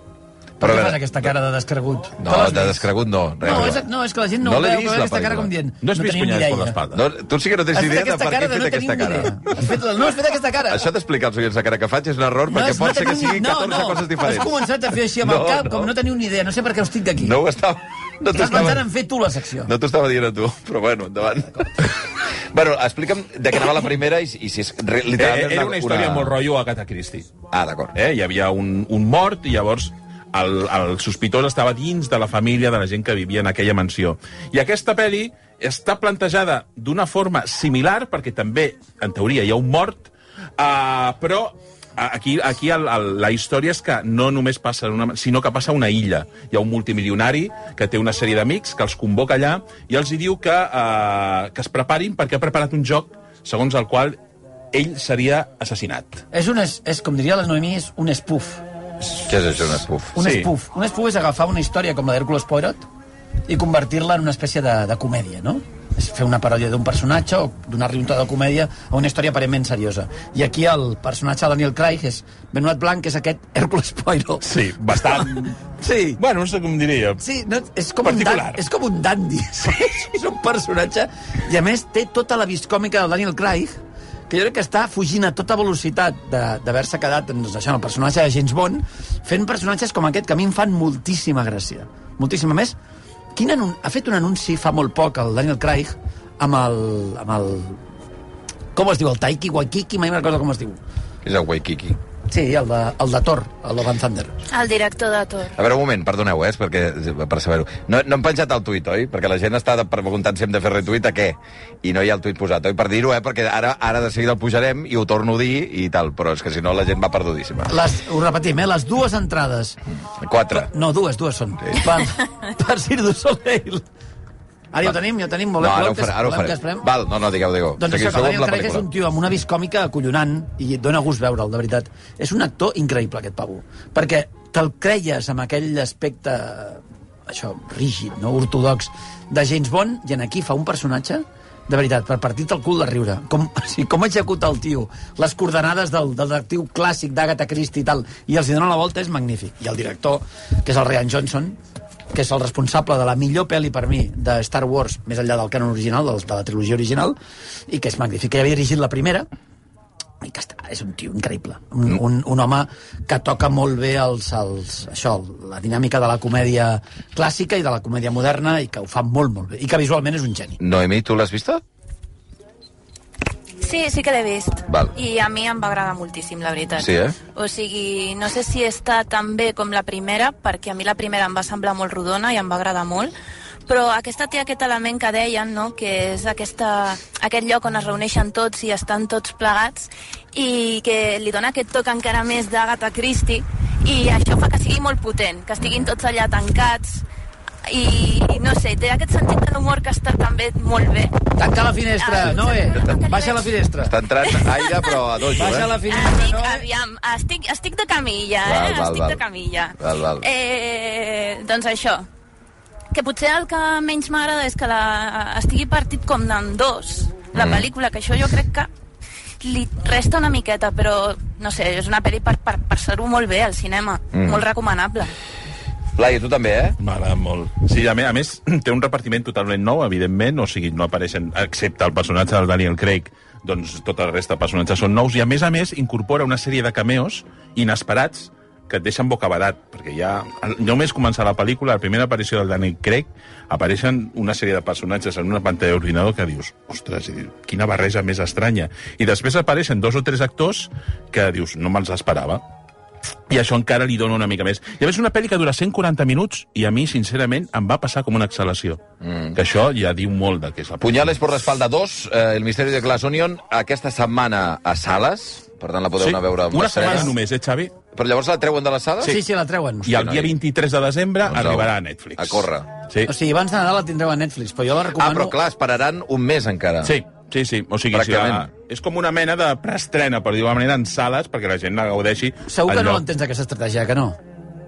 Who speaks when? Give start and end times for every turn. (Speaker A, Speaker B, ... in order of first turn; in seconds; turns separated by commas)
Speaker A: 0.6-2.9, Speaker B: 0.6-1.3, Speaker B: 2.2-3.9, Speaker A: 3.4-6.8, Speaker C: 3.5-3.8, Speaker B: 4.4-5.5, Speaker C: 5.8-7.0, Speaker B: 6.9-9.7, Speaker A: 7.7-10.9, Speaker B: 10.7-15.9, Speaker A: 12.5-17.4, Speaker B: 17.2-18.9, Speaker A: 18.3-19.7, Speaker B: 19.6-26.3, Speaker C: 25.2-27.3, Speaker B: 27.5-27.9, Speaker C: 27.9-54.2, Speaker C: 54.7-56.2, Speaker A: 56.3-58.6, Speaker B: 59.3-60.2, Speaker A: 60.1-62.9, Speaker C: 60.2-60.5, Speaker A: 63.5-76.2, Speaker C: 74.4-75.5, Speaker C: 76.2-77.2, Speaker A: 77.2-83.8, Speaker C: 78.0-78.6, Speaker A: 84.3-92.8, Speaker A: 93.4-97.8, Speaker A: 98.8-100.8, Speaker B: 101.2-102.0, Speaker A: 102.3-104.3, Speaker D: 104.5-105.5, Speaker B: 105.6-117.7, Speaker A: 117.7-119.8, Speaker B: 120.2-120.7, Speaker A: 120.5-123.8, Speaker A: 124.7-126.9, Speaker B: 125.6-128.9, Speaker A: 127.8-151.6, Speaker A: 152.1-157.2, Speaker A: 157.7-159.3, Speaker A: 160.2-170.6, Speaker B: 170.6-171.6, Speaker D: 173.6-183.1, Speaker B: 176.8-177.2, Speaker D: 183.7-197.0, Speaker D: 197.7-201.2, Speaker A: 201.4-203.9, Speaker D: 202.0-203.6, Speaker B: 203.8-205.7, Speaker D: 204.2-205.0, Speaker A: 205.4-206.7, Speaker D: 205.8-212.1, Speaker B: 208.4-209.2, Speaker B: 209.8-210.3, Speaker D: 212.9-218.7, Speaker B: 217.3-217.7, Speaker D: 219.4-225.1, Speaker B: 224.1-224.5, Speaker B: 226.0-226.8, Speaker C: 226.8-252.4, Speaker C: 253.3-258.8, Speaker B: 259.0-259.4, Speaker C: 259.4-261.1, Speaker B: 260.8-267.1, Speaker C: 266.0-267.7, Speaker B: 267.9-269.2, Speaker A: 269.0-269.9, Speaker C: 269.9-273.1, Speaker B: 269.9-270.4, Speaker B: 271.2-272.7, Speaker A: 273.1-275.4, Speaker B: 274.9-276.9, Speaker C: 276.8-283.0, Speaker B: 277.9-278.4, Speaker A: 282.5-284.2